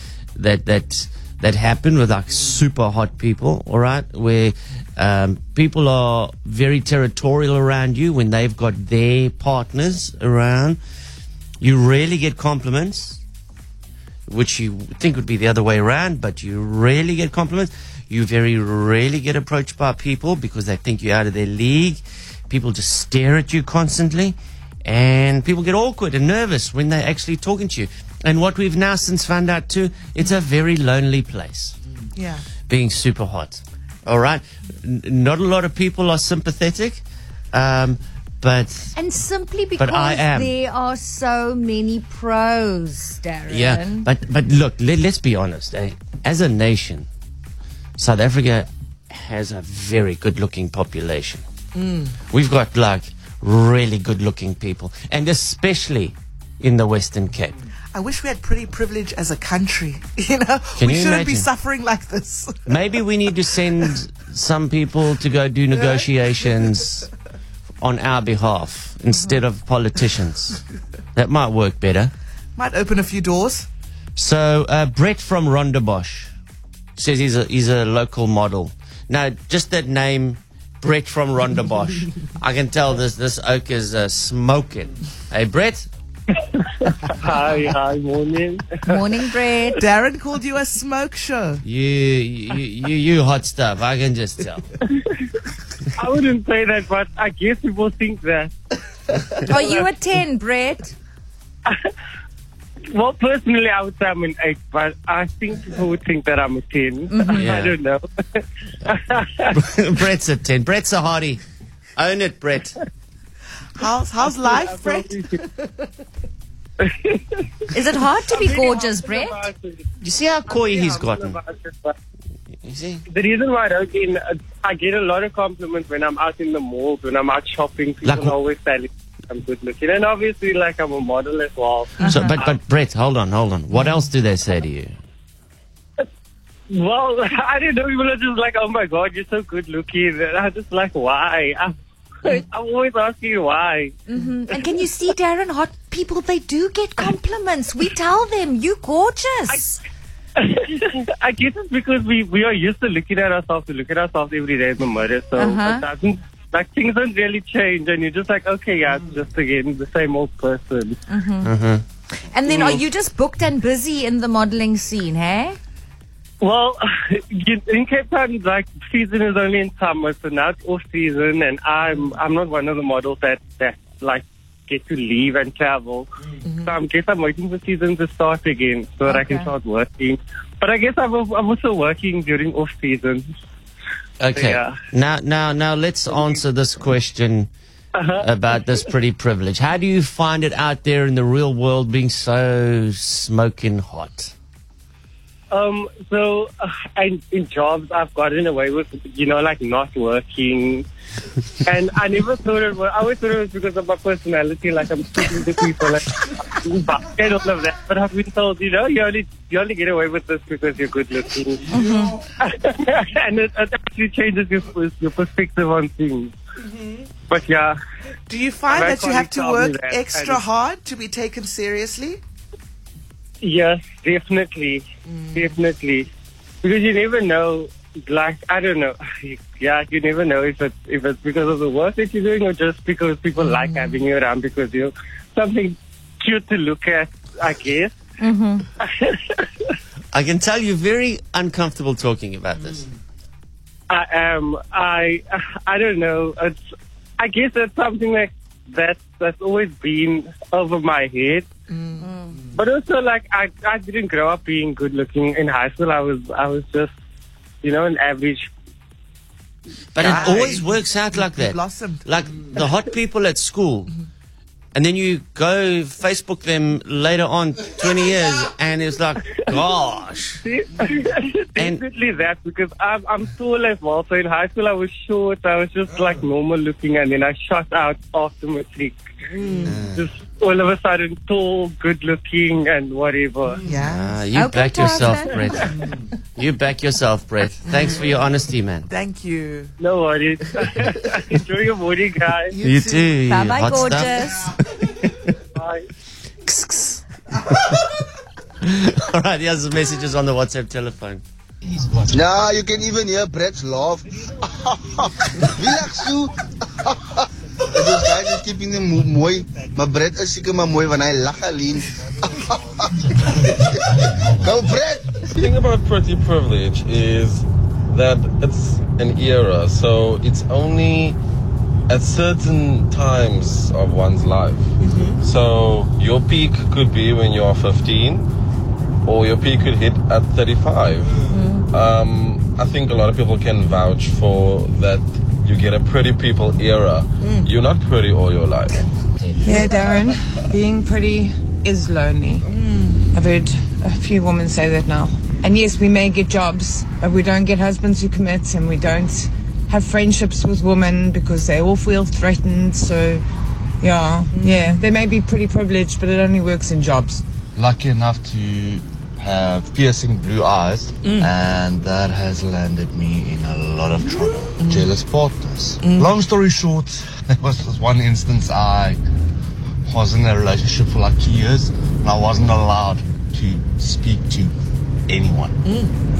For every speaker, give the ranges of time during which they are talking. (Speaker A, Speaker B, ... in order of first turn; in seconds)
Speaker A: 0.3-10.8, 11.6-13.2, 14.3-31.7, 32.7-38.9, 39.8-40.5, 43.5-47.1, 48.0-51.4, 52.3-57.5, 60.8-61.5, 62.7-67.1, 67.8-70.6, 71.1-72.1, 74.2-76.3, 77.0-85.9, 91.6-94.7, 107.3-107.7, 109.5-111.4, 112.0-112.8, 120.0-121.4, 122.6-123.0, 128.0-128.3, 132.1-134.9, 161.4-161.8, 184.2-187.5, 188.2-194.3, 240.1-242.9, 259.9-263.9, 264.7-270.4, 279.6-280.0, 283.8-285.7, 286.4-288.9, 292.6-295.3, 296.4-297.8, 298.6-301.2
Speaker B: 32.1-32.4, 51.8-52.1, 57.9-62.8, 65.7-66.0, 72.5-73.7, 89.8-91.6, 113.8-115.7, 176.5-176.7, 218.3-222.2, 251.7-252.1, 260.0-262.1, 279.4-279.7, 283.6-284.1, 288.9-289.7, 292.5-293.1, 337.2-337.5, 342.5-343.0, 361.0-361.3, 364.6-364.9, 365.8-366.1, 375.6-375.9
Speaker C: 39.0-44.1, 88.9-89.8, 99.5-100.9, 107.1-107.5, 117.7-119.4, 132.0-132.3, 144.1-149.8, 155.3-155.8, 161.1-161.5, 162.1-165.6, 179.1-179.5, 211.7-212.2, 238.2-238.6, 252.0-252.3, 284.3-285.6, 293.2-294.5, 331.3-331.6
Speaker D: 86.4-89.1, 95.0-95.2, 95.9-98.5, 99.3-99.8, 102.9-109.5, 114.2-115.4, 116.8-117.5, 118.2-119.9, 120.5-121.9, 123.1-132.6, 136.7-141.7, 142.2-144.0, 150.4-161.0, 162.4-162.8, 166.4-176.1, 176.6-183.2, 184.3-184.7, 186.1-186.3, 187.9-188.2, 195.5-200.8, 201.6-211.7, 212.4-216.3, 217.3-217.8, 218.7-220.4, 223.4-226.1, 226.6-237.9, 238.8-239.7, 243.9-246.6, 247.2-251.5, 252.5-256.9, 257.6-258.5, 260.0-260.4, 270.4-279.0, 279.8-283.6, 289.8-292.5, 295.5-295.9
Speaker E: 302.1-315.5
Speaker F: 315.4-321.2, 321.9-328.3, 329.0-331.2, 331.7-338.8
Speaker G: 339.4-342.5, 343.1-353.2, 353.8-357.2
Speaker H: 357.6-369.0, 369.9-374.5, 375.1-375.6